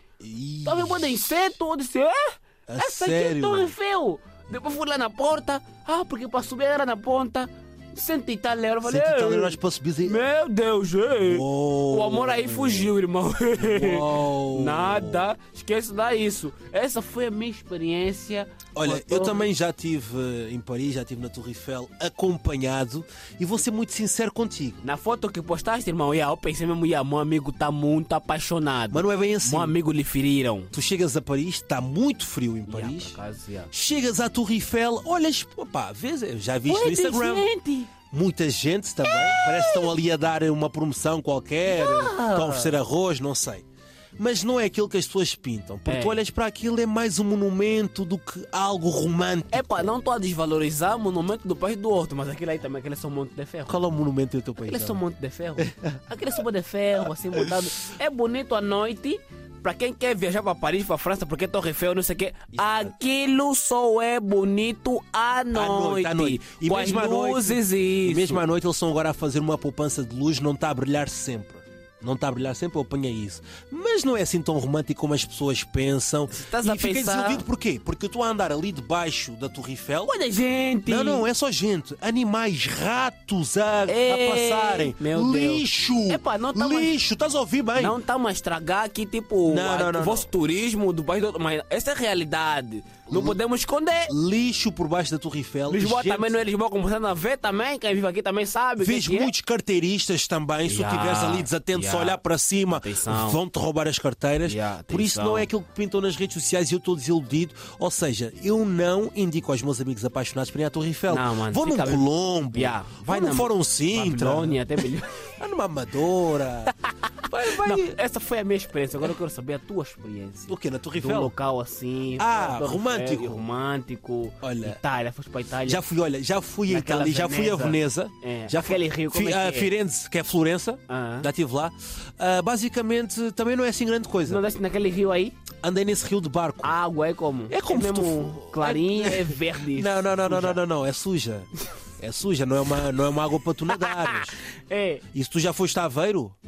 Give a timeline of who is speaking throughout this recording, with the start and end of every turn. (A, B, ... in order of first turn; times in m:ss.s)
0:00.2-0:01.4 A
0:00.6-0:19.5 B
0:02.7-0:03.7 A
0:08.8-0:10.2 A
0:11.2-0:12.9 A
0:13.6-0:15.3 A
0:18.7-0:24.8 A
0:24.8-0:30.7 B
0:28.9-0:29.7 A
0:30.7-0:33.2 A
0:32.7-0:33.7 B
0:33.7-0:37.5 A
0:36.6-0:37.9 B
0:38.1-0:43.6 A
0:39.1-0:39.9 B
0:41.7-0:42.8 B
0:44.2-0:49.9 A
0:45.9-0:46.2 B
0:49.5-0:53.9 B
0:53.7-0:55.0 A
0:54.6-1:08.4 B
0:55.6-0:56.0 A
0:57.3-0:57.7 A
1:02.6-1:02.9 A
1:05.5-1:20.1 A
1:16.3-1:17.4 B
1:20.0-1:21.3 B
1:20.9-1:28.0 A
1:23.9-1:26.9 B
1:27.8-1:34.1 B
1:29.4-1:30.3 A
1:33.1-1:33.4 A
1:34.1-1:36.4 A
1:35.7-1:39.3 B
1:38.8-1:54.8 A
1:40.6-1:42.2 B
1:42.7-1:43.4 B
1:44.4-1:45.5 B
1:51.1-1:55.2 B
1:55.4-1:56.7 A
1:56.8-2:05.8 B
1:57.3-1:58.0 A
2:00.5-2:01.3 A
2:02.2-2:03.4 A
2:04.4-2:04.8 A
2:05.6-2:14.4 A
2:06.7-2:09.7 B
2:10.9-2:11.3 B
2:14.2-2:15.3 B
2:15.6-2:16.7 A
2:16.6-2:20.6 B
2:17.5-2:24.4 A
2:23.7-2:25.0 B
2:25.1-2:26.4 A